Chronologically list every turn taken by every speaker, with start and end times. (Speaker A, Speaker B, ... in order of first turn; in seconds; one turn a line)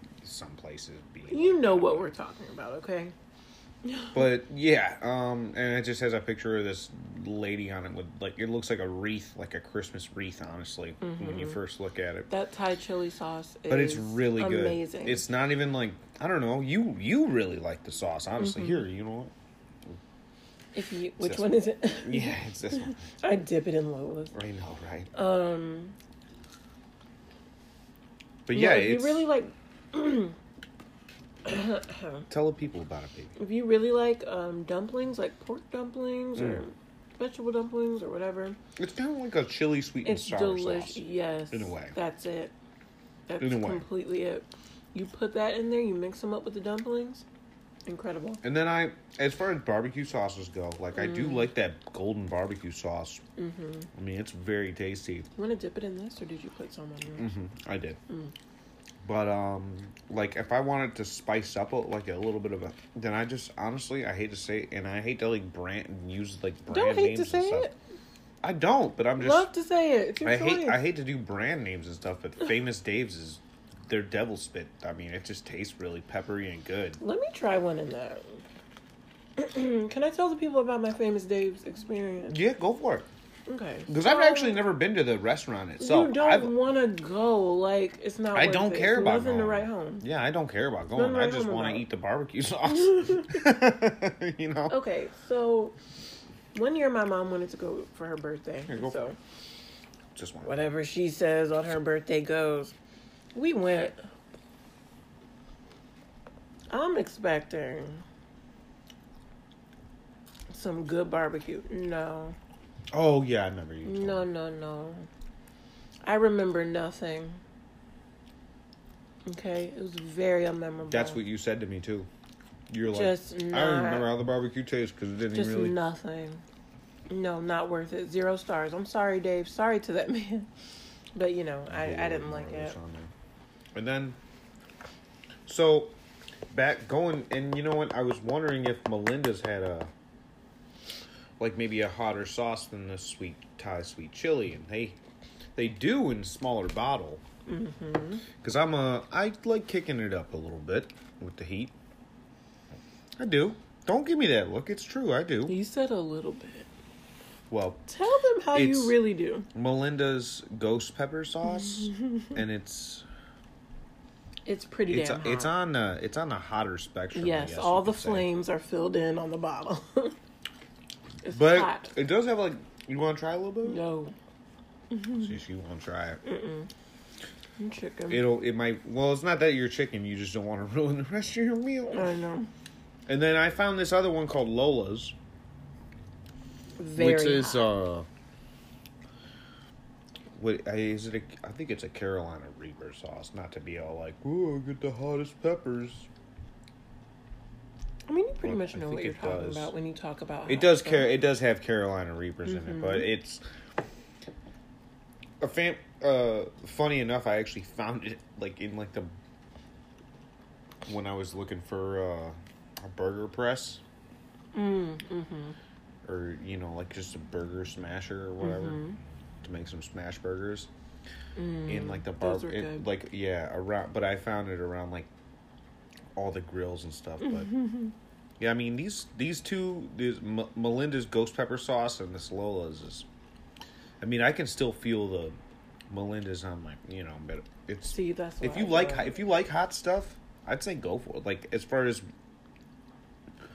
Speaker A: 0.2-2.1
Speaker B: 1.3-3.1
Speaker B: 3.8-4.3
Speaker A: 4.1-12.3
Speaker B: 11.0-11.6
Speaker B: 12.3-15.2
Speaker A: 13.7-19.3
Speaker B: 18.4-18.8
Speaker B: 20.7-24.3
Speaker A: 21.2-23.0
Speaker A: 24.3-25.1
Speaker B: 25.1-25.9
Speaker A: 28.4-29.3
Speaker B: 28.5-30.4
Speaker B: 31.4-32.2
Speaker A: 32.3-33.3
Speaker B: 33.4-38.6
Speaker A: 36.3-36.6
Speaker A: 38.8-41.9
Speaker B: 40.0-42.5
Speaker B: 43.3-47.2
Speaker A: 43.4-43.9
Speaker B: 47.9-48.4
Speaker A: 48.4-53.2
Speaker B: 50.9-51.5
Speaker B: 53.4-53.9
Speaker A: 53.9-55.3
Speaker B: 55.4-57.3
Speaker A: 57.2-58.0
Speaker A: 59.0-67.7
Speaker B: 66.7-67.7
Speaker A: 68.4-69.5
Speaker B: 69.2-70.8
Speaker A: 70.2-77.0
Speaker B: 77.0-78.4
Speaker B: 79.4-82.4
Speaker A: 82.3-83.1
Speaker B: 83.5-84.6
Speaker A: 83.9-86.5
Speaker B: 85.8-90.0
Speaker A: 88.3-94.8
Speaker B: 90.9-91.9
Speaker B: 92.7-93.4
Speaker B: 94.7-95.7
Speaker B: 96.5-99.2
Speaker A: 98.7-99.0
Speaker A: 100.1-100.6
Speaker B: 100.4-102.7
Speaker B: 103.3-104.0
Speaker B: 106.7-108.0
Speaker B: 110.5-112.4
Speaker A: 112.9-114.2
Speaker B: 113.8-115.1
Speaker B: 116.0-117.4
Speaker B: 119.2-121.2
Speaker A: 120.9-122.1
Speaker A: 122.7-125.8
Speaker B: 122.9-124.1
Speaker B: 125.3-126.4
Speaker B: 127.1-130.5
Speaker B: 131.1-132.8
Speaker A: 131.7-133.1
Speaker A: 133.7-134.2
Speaker A: 135.5-135.9
Speaker A: 136.5-139.9
Speaker A: 141.4-145.0
Speaker A: 145.6-147.2
Speaker B: 147.5-148.2
Speaker A: 148.4-151.7
Speaker A: 153.2-155.6
Speaker B: 155.4-156.7
Speaker A: 157.5-157.8
Speaker B: 157.9-159.5
Speaker A: 158.5-159.0
Speaker A: 159.5-163.0
Speaker B: 161.4-162.4
Speaker B: 164.4-165.5
Speaker A: 164.9-168.3
Speaker B: 167.1-170.1
Speaker B: 171.2-171.9
Speaker A: 171.3-173.8
Speaker B: 173.6-174.1
Speaker B: 174.9-175.3
Speaker A: 175.1-176.2
Speaker B: 176.2-176.7
Speaker B: 177.6-178.2
Speaker A: 178.1-182.1
Speaker B: 181.9-182.5
Speaker A: 183.1-185.1
Speaker B: 186.8-187.7
Speaker A: 186.9-188.1
Speaker A: 190.3-196.1
Speaker B: 198.1-201.1
Speaker A: 198.4-199.7
Speaker A: 200.5-203.4
Speaker B: 202.4-203.1
Speaker A: 205.4-209.1
Speaker A: 210.8-213.8
Speaker B: 214.5-215.6
Speaker A: 216.0-218.8
Speaker B: 218.4-219.0
Speaker A: 219.4-220.7
Speaker B: 221.3-222.9
Speaker A: 221.7-225.1
Speaker A: 226.2-227.5
Speaker B: 227.2-227.9
Speaker A: 228.4-233.1
Speaker A: 234.0-235.3
Speaker A: 235.9-242.0
Speaker B: 237.9-239.2